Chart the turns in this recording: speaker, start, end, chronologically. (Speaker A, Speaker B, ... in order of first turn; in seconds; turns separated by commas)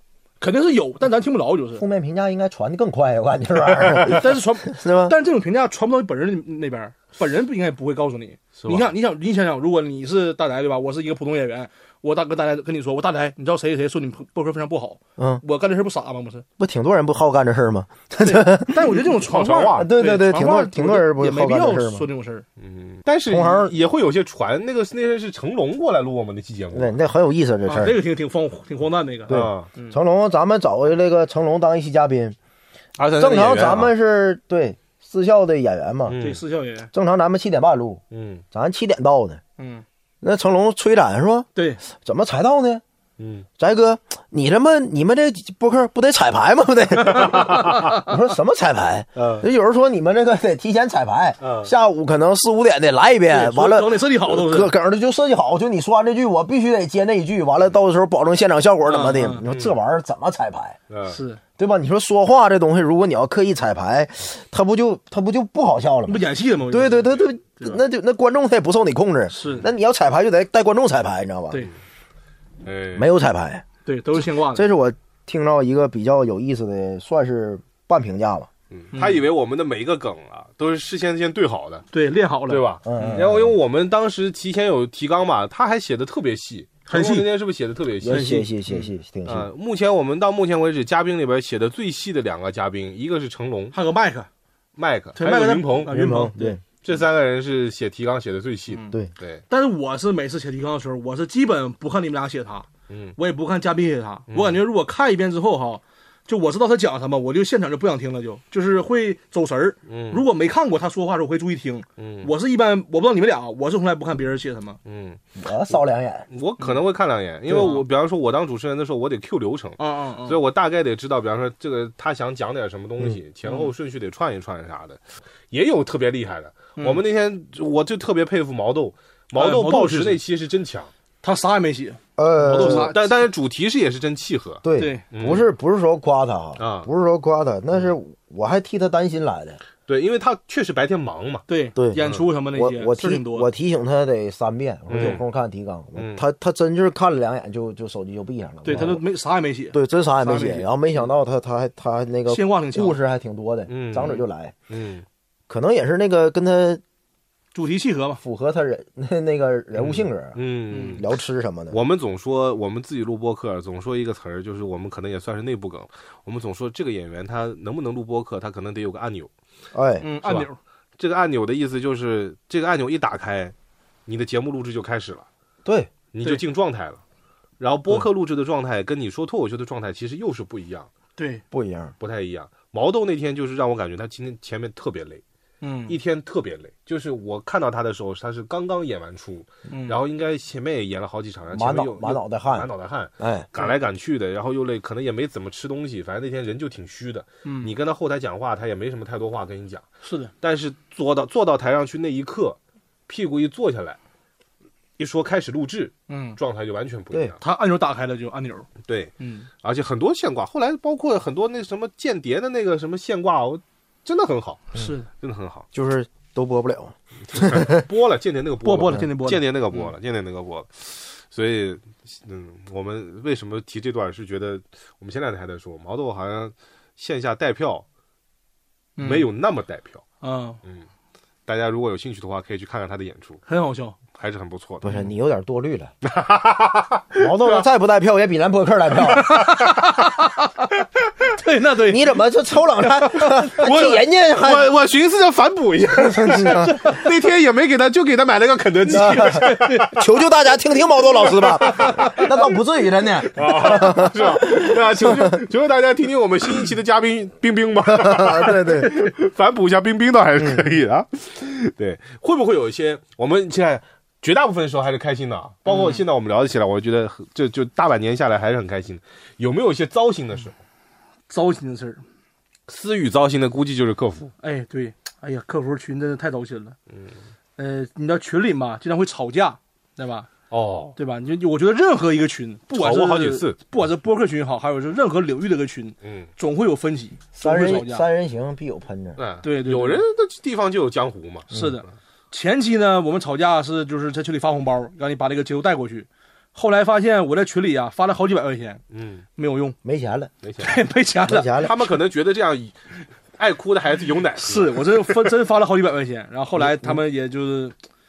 Speaker A: 0.4-1.8, Speaker B: 1.8-5.2, Speaker A: 4.0-16.4, Speaker C: 8.6-8.9, Speaker B: 15.2-15.4, Speaker B: 16.6-18.8, Speaker A: 18.2-22.4, Speaker C: 19.3-19.9, Speaker B: 19.8-22.1, Speaker C: 22.6-27.0, Speaker B: 23.3-23.7, Speaker B: 26.7-28.0, Speaker A: 27.7-30.0, Speaker B: 29.3-32.4, Speaker C: 29.3-29.7, Speaker C: 33.0-33.9, Speaker B: 33.2-36.2, Speaker C: 36.1-36.4, Speaker A: 36.2-36.9, Speaker B: 36.9-39.4, Speaker C: 38.1-38.4, Speaker A: 39.6-39.8, Speaker B: 40.2-42.8, Speaker A: 41.5-41.8, Speaker C: 43.2-43.5, Speaker B: 43.6-60.8, Speaker A: 47.1-48.0, Speaker C: 47.1-48.0, Speaker C: 49.2-49.5, Speaker C: 51.4-51.7, Speaker A: 53.3-54.7, Speaker A: 58.9-59.4, Speaker C: 59.5-59.8, Speaker C: 60.9-61.2, Speaker A: 61.1-61.4, Speaker B: 61.6-71.7, Speaker A: 66.1-67.8, Speaker A: 69.3-69.7, Speaker C: 72.6-73.1, Speaker B: 73.0-73.7, Speaker A: 73.9-74.7, Speaker B: 74.5-78.5, Speaker C: 78.7-81.8, Speaker A: 78.9-79.2, Speaker A: 81.9-83.3, Speaker C: 82.5-88.4, Speaker B: 82.8-83.5, Speaker A: 86.9-87.3, Speaker B: 88.0-89.5, Speaker A: 88.1-88.9, Speaker C: 89.3-93.8, Speaker A: 93.7-94.3, Speaker C: 94.8-96.1, Speaker A: 95.2-96.6, Speaker B: 95.9-96.6, Speaker C: 96.8-99.4, Speaker A: 99.5-114.8, Speaker C: 102.9-103.2, Speaker C: 104.3-104.6, Speaker C: 109.9-110.2, Speaker C: 112.0-112.3, Speaker C: 114.9-115.2, Speaker B: 115.4-116.3, Speaker C: 116.3-130.9, Speaker A: 117.5-117.8, Speaker A: 119.8-120.4, Speaker A: 123.5-123.7, Speaker A: 129.4-130.2, Speaker A: 131.2-133.1, Speaker B: 132.2-132.9, Speaker C: 132.6-135.5, Speaker B: 134.6-139.6, Speaker A: 134.8-135.0, Speaker C: 136.6-136.9, Speaker C: 139.9-141.4, Speaker A: 141.5-143.5, Speaker B: 141.8-149.0, Speaker C: 142.0-142.3, Speaker C: 144.9-145.2, Speaker A: 144.9-145.2, Speaker C: 146.0-146.2, Speaker A: 148.7-150.7, Speaker B: 149.7-154.6, Speaker A: 152.3-153.0, Speaker C: 153.7-155.1, Speaker B: 155.5-156.8, Speaker A: 157.5-158.2, Speaker B: 158.2-160.4, Speaker C: 159.8-161.1, Speaker A: 160.7-161.0, Speaker B: 161.0-161.8, Speaker C: 161.7-169.3, Speaker B: 169.7-170.1, Speaker A: 170.0-170.6, Speaker C: 170.2-173.5, Speaker C: 174.1-175.3, Speaker B: 175.7-175.9, Speaker C: 176.1-177.0, Speaker C: 177.6-180.9, Speaker A: 181.2-181.4, Speaker B: 181.5-181.9, Speaker C: 182.0-185.2, Speaker A: 185.6-186.0, Speaker C: 185.9-199.8, Speaker A: 189.7-190.0, Speaker B: 191.5-193.5, Speaker A: 197.4-197.7, Speaker A: 200.0-200.3, Speaker C: 200.4-204.0, Speaker C: 205.0-207.4, Speaker A: 206.1-206.4, Speaker A: 207.4-209.5, Speaker C: 208.8-215.7, Speaker A: 214.8-215.1, Speaker B: 215.7-217.8, Speaker C: 217.3-227.8, Speaker A: 218.6-219.9, Speaker A: 229.0-229.3, Speaker C: 229.0-230.0, Speaker A: 230.2-230.6, Speaker C: 231.5-233.4, Speaker A: 233.5-234.0, Speaker C: 234.2-235.0, Speaker B: 234.8-235.9, Speaker C: 236.0-237.7, Speaker B: 237.2-239.3, Speaker A: 239.1-240.7, Speaker A: 241.3-242.1, Speaker B: 241.8-244.7, Speaker C: 243.3-250.0, Speaker B: 246.1-246.8, Speaker A: 248.9-249.9, Speaker B: 248.9-255.4, Speaker C: 251.3-252.2, Speaker A: 251.8-252.2, Speaker C: 253.3-270.6, Speaker B: 257.9-259.1, Speaker B: 260.4-260.6, Speaker A: 265.7-266.0, Speaker A: 271.3-272.0, Speaker C: 272.7-274.3, Speaker A: 274.4-276.8, Speaker A: 277.6-280.3, Speaker C: 280.5-280.9, Speaker A: 281.0-288.1, Speaker C: 282.7-283.6, Speaker C: 286.0-286.3, Speaker B: 287.4-289.2, Speaker C: 289.2-291.5, Speaker A: 289.4-290.0, Speaker A: 291.5-298.8, Speaker C: 298.9-299.2, Speaker A: 299.4-299.8, Speaker B: 299.8-300.3, Speaker C: 300.4-300.8, Speaker A: 300.6-301.9, Speaker B: 301.3-301.7, Speaker C: 301.6-305.2, Speaker A: 304.4-307.8